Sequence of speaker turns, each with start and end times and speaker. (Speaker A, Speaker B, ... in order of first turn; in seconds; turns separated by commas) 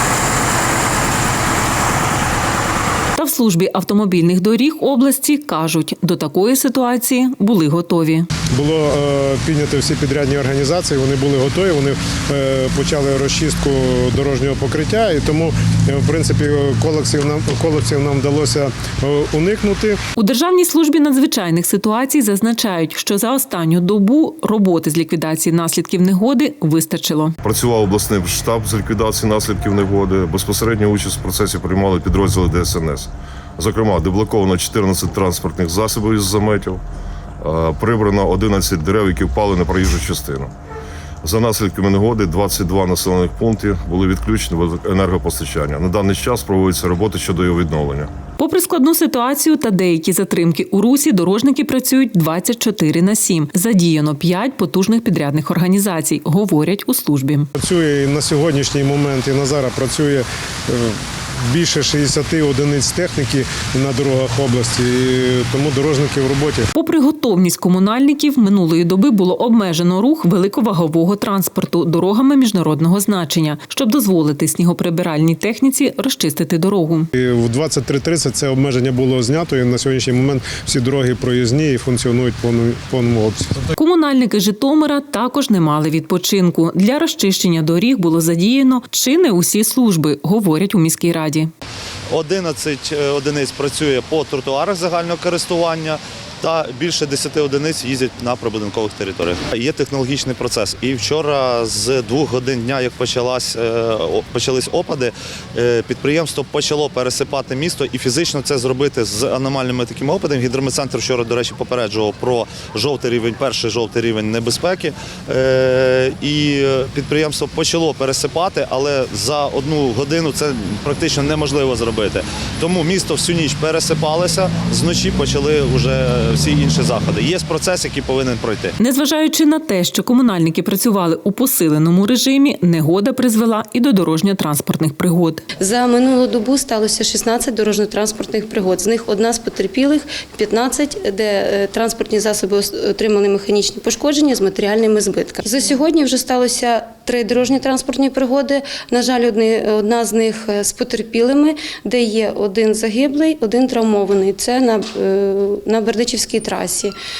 Speaker A: 3.1-8.3, Speaker B: 8.5-20.0, Speaker A: 20.1-27.3, Speaker C: 27.4-36.8, Speaker C: 37.4-40.5, Speaker C: 41.2-48.1, Speaker A: 48.4-57.5, Speaker B: 57.6-66.7, Speaker A: 66.7-77.1, Speaker B: 77.2-83.7, Speaker A: 83.8-91.5, Speaker D: 92.1-128.7, Speaker A: 128.8-135.4, Speaker E: 135.6-156.9